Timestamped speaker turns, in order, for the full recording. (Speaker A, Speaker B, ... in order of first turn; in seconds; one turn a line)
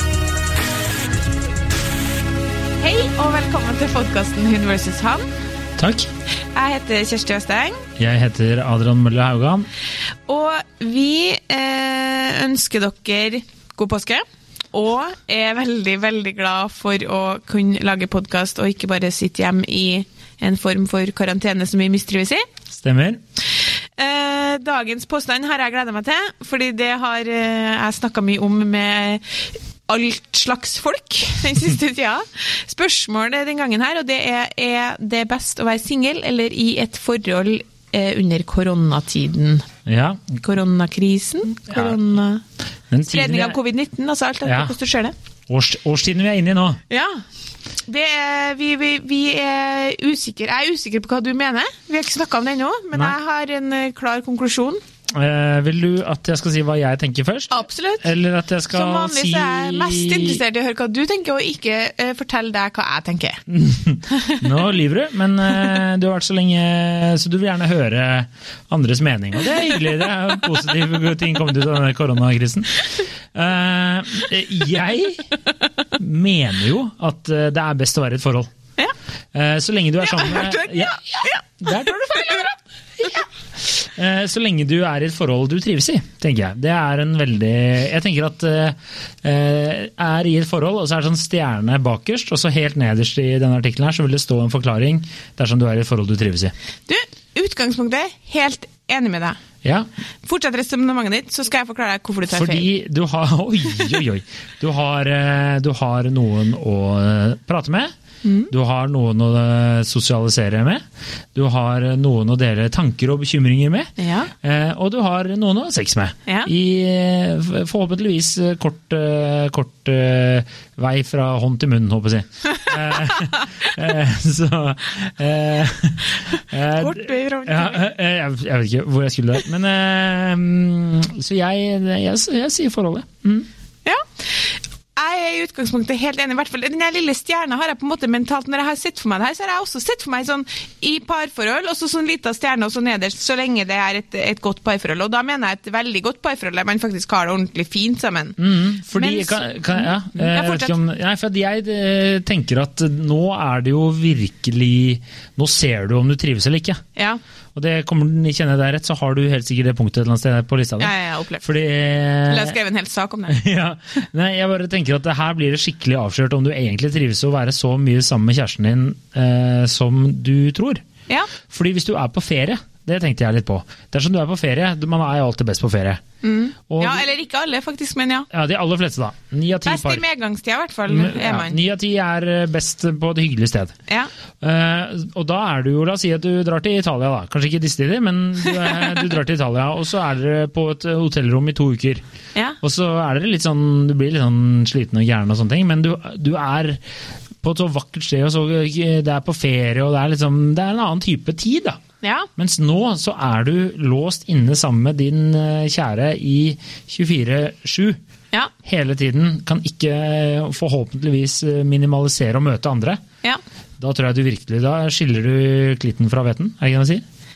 Speaker A: 2.8-5.3
Speaker B: 5.8-6.1
Speaker A: 6.5-7.9
Speaker B: 8.0-9.7
Speaker A: 10.3-22.5
Speaker B: 22.7-23.2
Speaker A: 24.0-29.3
Speaker A: 29.9-39.7
Speaker B: 39.9-40.4
Speaker A: 40.4-42.4
Speaker B: 41.7-42.0
Speaker B: 42.9-43.6
Speaker A: 43.1-45.1
Speaker B: 44.5-44.8
Speaker B: 45.5-46.8
Speaker A: 46.9-47.2
Speaker A: 47.9-54.8
Speaker B: 55.1-60.4
Speaker A: 57.5-58.1
Speaker A: 58.7-63.4
Speaker B: 63.5-75.3
Speaker A: 64.1-64.5
Speaker B: 76.0-78.5
Speaker B: 79.3-96.5
Speaker A: 80.0-82.5
Speaker A: 96.9-99.4
Speaker A: 100.3-102.7
Speaker B: 102.3-107.9
Speaker A: 108.2-108.5
Speaker B: 108.5-110.8
Speaker B: 111.3-133.5
Speaker A: 114.0-114.3
Speaker A: 122.5-123.7
Speaker A: 126.3-127.8
Speaker A: 133.8-150.8
Speaker B: 148.4-156.8
Speaker B: 157.6-162.6
Speaker A: 160.8-161.4
Speaker A: 162.3-163.4
Speaker B: 163.3-170.8
Speaker B: 171.5-176.0
Speaker A: 176.2-178.3
Speaker B: 176.7-177.1
Speaker B: 178.3-180.0
Speaker A: 179.7-181.6
Speaker B: 180.9-183.8
Speaker B: 184.4-192.0
Speaker A: 188.5-189.0
Speaker B: 192.6-196.8
Speaker B: 197.4-201.8
Speaker A: 202.0-202.3
Speaker B: 202.4-208.0
Speaker B: 208.6-213.0
Speaker B: 213.8-217.0